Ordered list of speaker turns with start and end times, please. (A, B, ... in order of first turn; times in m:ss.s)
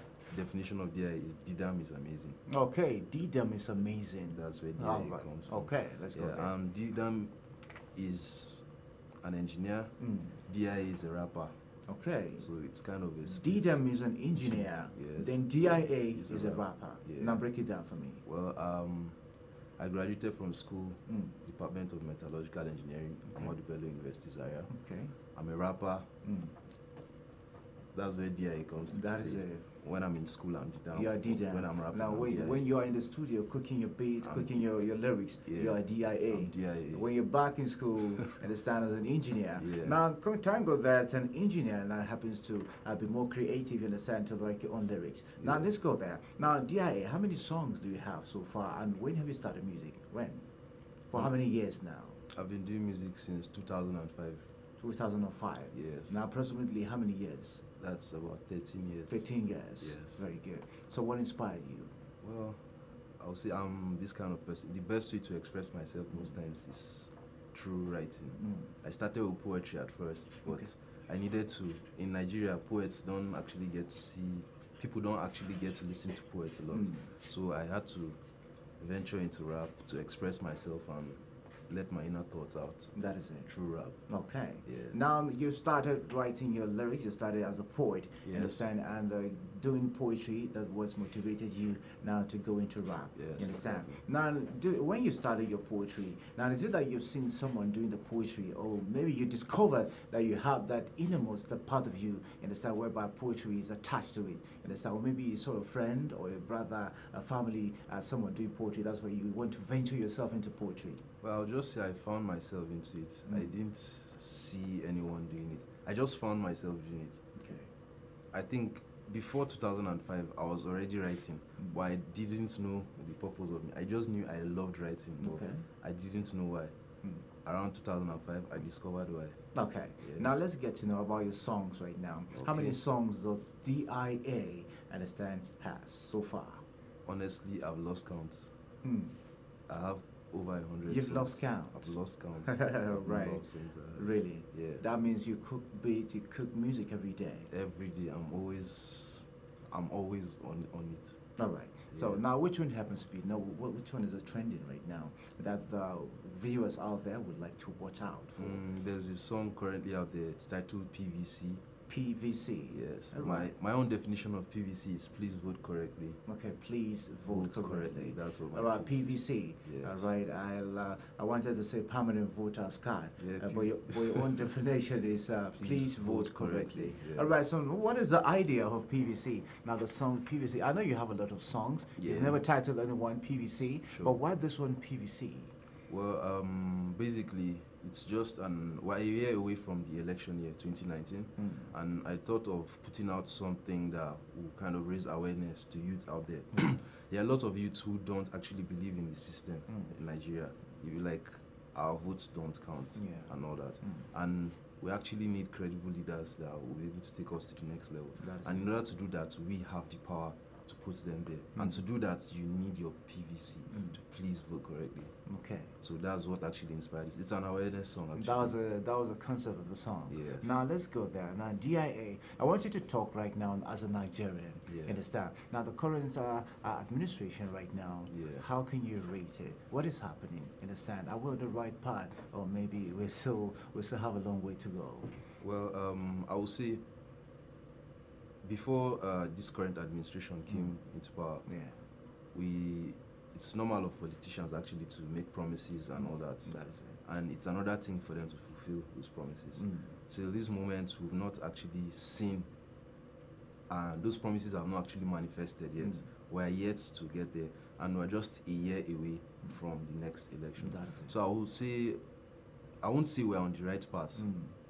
0:00.3-0:02.4 A
0:02.5-0:06.5 B
0:04.3-0:07.4 A
0:08.0-0:08.7 A
0:09.2-0:11.6 A
0:10.0-0:10.4 B
0:11.9-0:12.5 B
0:12.4-0:17.4 A
0:13.3-0:18.2 B
0:18.2-0:19.2 A
0:19.8-0:24.7 A
0:21.1-0:21.4 B
0:24.7-0:25.2 B
0:25.3-0:26.1 A
0:26.2-0:26.5 B
0:27.9-0:32.6 A
0:28.9-0:29.7 B
0:30.9-0:50.5 B
0:34.2-0:34.6 A
0:35.5-0:37.1 A
0:39.6-0:40.0 A
0:45.4-0:45.7 A
0:51.1-0:52.2 B
0:52.3-0:54.5 A
0:54.8-0:57.6 B
0:55.7-0:56.2 A
0:57.8-0:59.3 A
0:59.1-1:01.9 B
0:59.8-1:00.2 A
1:02.2-1:02.6 A
1:03.2-1:18.2 A
1:08.4-1:08.7 B
1:16.7-1:17.1 B
1:18.8-1:24.1 A
1:23.0-1:23.5 B
1:24.1-1:51.0 B
1:24.6-1:25.0 A
1:28.2-1:28.7 A
1:33.2-1:34.0 A
1:51.2-1:57.2 A
1:57.4-1:57.7 B
1:58.3-2:06.8 A
2:05.2-2:05.6 B
2:07.4-2:09.4 A
2:09.5-2:16.6 B
2:10.0-2:10.3 A
2:12.3-2:12.8 A
2:17.0-2:18.5 A
2:18.8-2:19.1 B
2:19.7-2:24.8 A
2:20.9-2:27.5 B
2:27.5-2:31.2 A
2:31.4-2:38.6 B
2:31.9-2:32.2 A
2:38.4-2:41.6 A
2:41.9-2:43.5 B
2:42.7-2:46.2 A
2:46.3-3:05.5 B
2:47.3-2:50.1 A
2:53.2-2:54.4 A
2:55.6-2:57.3 A
3:02.0-3:02.4 A
3:03.9-3:04.2 A
3:05.9-3:35.1 A
3:11.4-3:11.7 B
3:19.7-3:19.9 B
3:23.0-3:24.1 B
3:28.2-3:28.7 B
3:33.7-3:34.0 B
3:35.3-3:35.7 B
3:35.8-3:38.5 A
3:38.2-3:55.1 B
3:40.1-3:40.6 A
3:44.7-3:45.0 A
3:48.1-3:48.4 A
3:55.4-3:56.8 A
3:58.4-4:01.5 A
4:00.5-4:00.8 B
4:01.5-4:01.8 B
4:02.3-4:06.5 A
4:06.0-4:07.0 B
4:07.0-4:12.5 A
4:09.6-4:10.0 B
4:13.7-4:22.0 A
4:20.6-4:21.1 B
4:22.8-4:24.3 A
4:24.2-4:24.6 B